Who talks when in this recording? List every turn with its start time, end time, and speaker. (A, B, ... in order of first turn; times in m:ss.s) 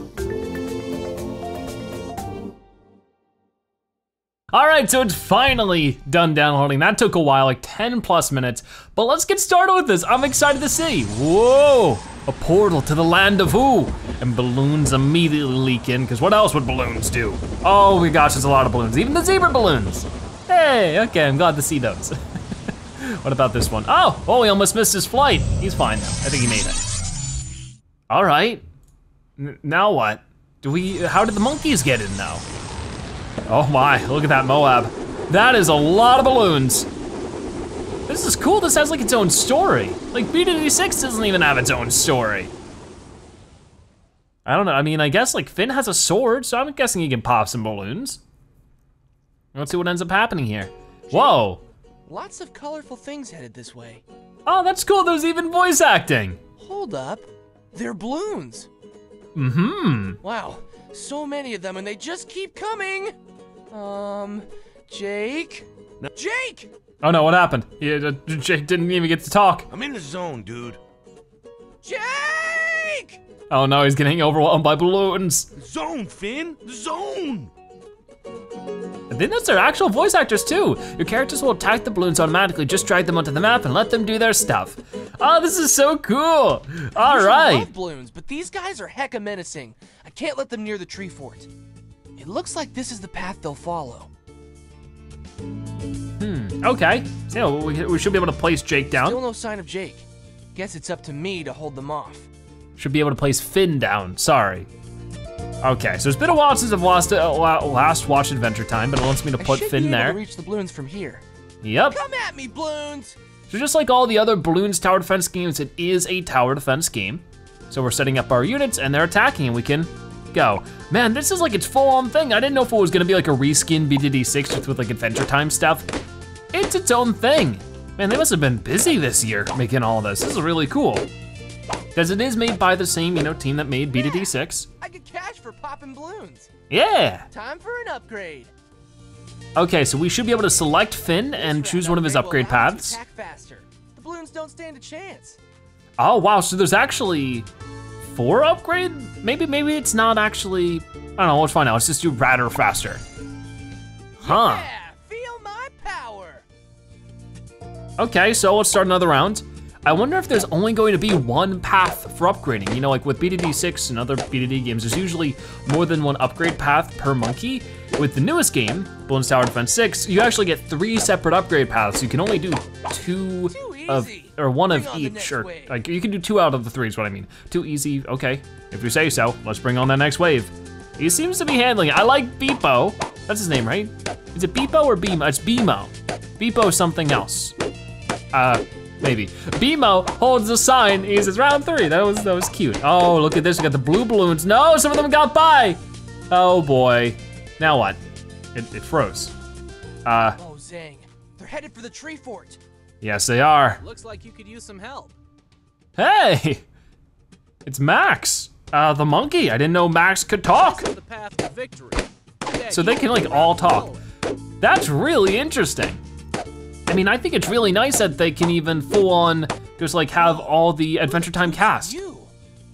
0:04.5-0:22.2 A
0:23.0-0:26.8 A
0:28.1-0:28.6 A
0:29.4-0:32.4 A
0:33.5-0:36.9 A
0:38.1-0:42.5 A
0:44.4-0:48.2 A
0:49.5-0:51.6 A
0:51.1-0:51.4 B
0:52.1-0:54.0 B
0:54.4-0:56.4 A
0:56.6-0:58.7 B
0:59.3-1:00.2 A
1:00.2-1:03.1 B
1:03.7-1:06.7 B
1:07.0-1:09.7 A
1:09.7-1:10.8 C
1:11.8-1:13.2 B
1:13.5-1:15.5 A
1:15.5-1:17.5 C
1:19.1-1:27.7 A
1:27.0-1:31.5 B
1:32.2-1:34.1 B
1:36.2-1:39.2 A
1:38.9-1:42.3 B
1:42.8-1:44.7 A
1:45.6-1:50.2 A
1:49.4-1:51.2 B
1:51.6-1:52.0 A
1:51.9-1:53.2 B
1:53.5-2:05.9 A
2:06.5-2:11.0 A
2:11.9-2:14.7 A
2:14.0-2:14.2 B
2:14.8-2:16.5 B
2:16.7-2:17.3 A
2:17.3-2:18.5 B
2:19.6-2:23.0 A
2:21.3-2:25.4 B
2:26.0-2:27.5 A
2:28.0-2:33.0 A
2:34.2-2:36.4 B
2:34.2-2:34.7 A
2:38.0-3:07.5 A
2:53.4-2:55.7 B
3:08.3-3:18.0 A
3:18.5-3:19.3 A
3:20.0-3:20.4 A
3:20.4-3:22.6 B
3:23.0-3:23.8 A
3:23.8-3:25.2 D
3:26.0-3:26.6 A
3:27.6-3:30.9 A
3:30.5-3:34.0 D
3:32.7-3:33.9 A
3:34.6-3:36.0 A
3:36.9-3:42.0 A
3:40.1-3:42.3 B